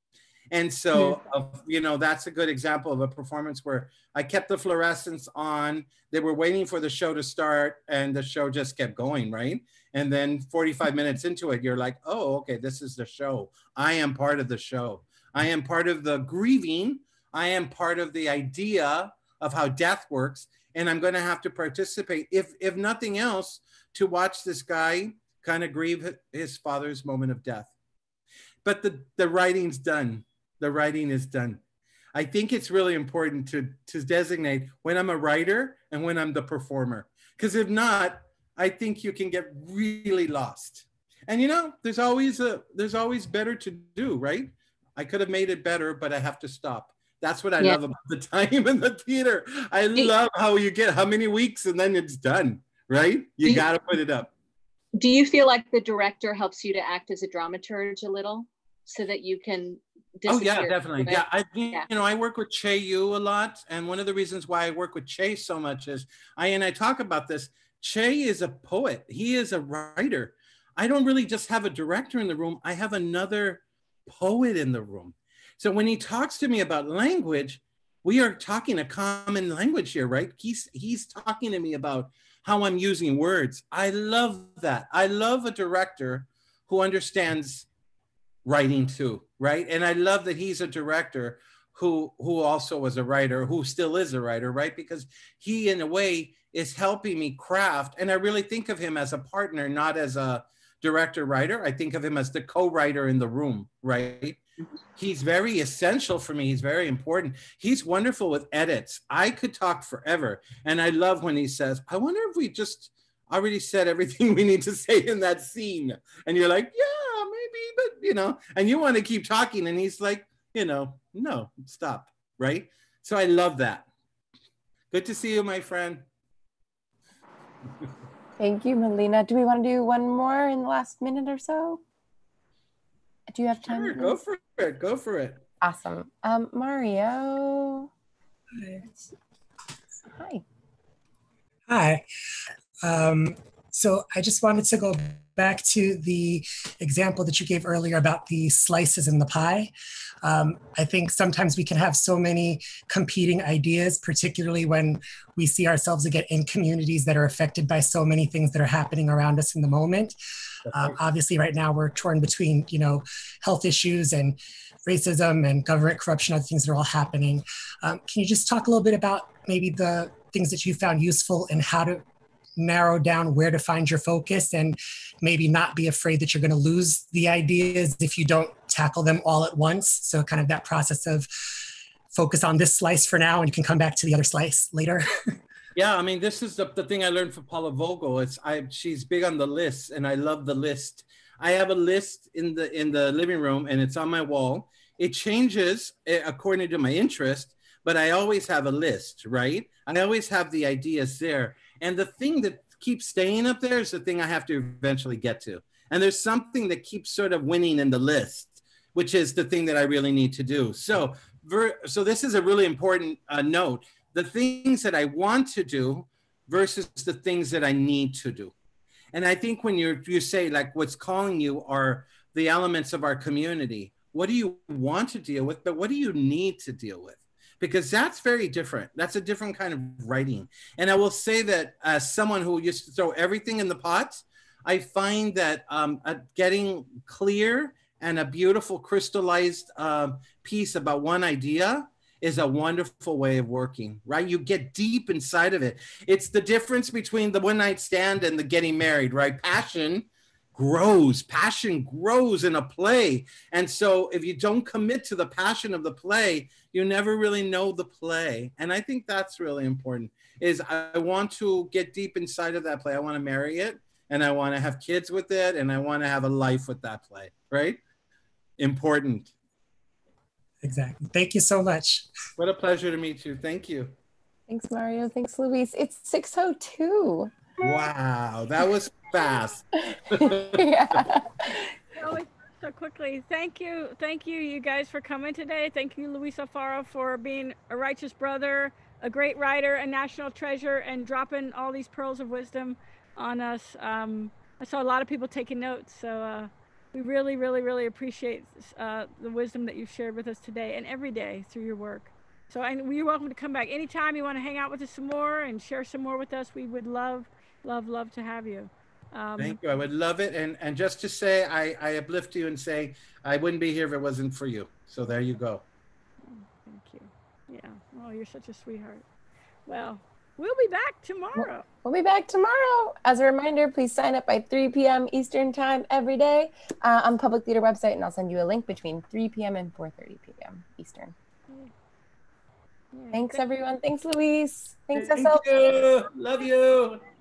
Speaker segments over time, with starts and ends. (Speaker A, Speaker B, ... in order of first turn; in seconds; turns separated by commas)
Speaker A: 0.5-27.7, Speaker A: 28.6-31.6, Speaker A: 32.1-54.3, Speaker B: 55.0-61.9, Speaker A: 60.3-87.7, Speaker A: 88.4-104.4, Speaker A: 105.0-123.8, Speaker A: 124.9-126.0, Speaker C: 128.4-131.8, Speaker C: 133.3-134.2, Speaker A: 133.6-135.4, Speaker C: 135.6-137.9, Speaker D: 138.6-138.8, Speaker C: 140.1-140.4, Speaker D: 141.7-142.0, Speaker D: 142.8-149.7, Speaker D: 150.2-172.0, Speaker D: 172.6-181.3, Speaker D: 182.1-185.2, Speaker A: 185.7-218.5, Speaker A: 219.1-267.8, Speaker A: 268.6-269.3, Speaker D: 270.6-272.1, Speaker A: 272.4-273.9, Speaker C: 274.5-277.3, Speaker A: 277.6-281.0, Speaker C: 279.9-281.7, Speaker E: 281.9-309.6, Speaker A: 309.4-315.6, Speaker E: 316.2-319.0, Speaker E: 319.7-321.6, Speaker C: 321.3-331.1, Speaker E: 332.9-333.4, Speaker C: 333.1-335.9, Speaker A: 334.9-337.0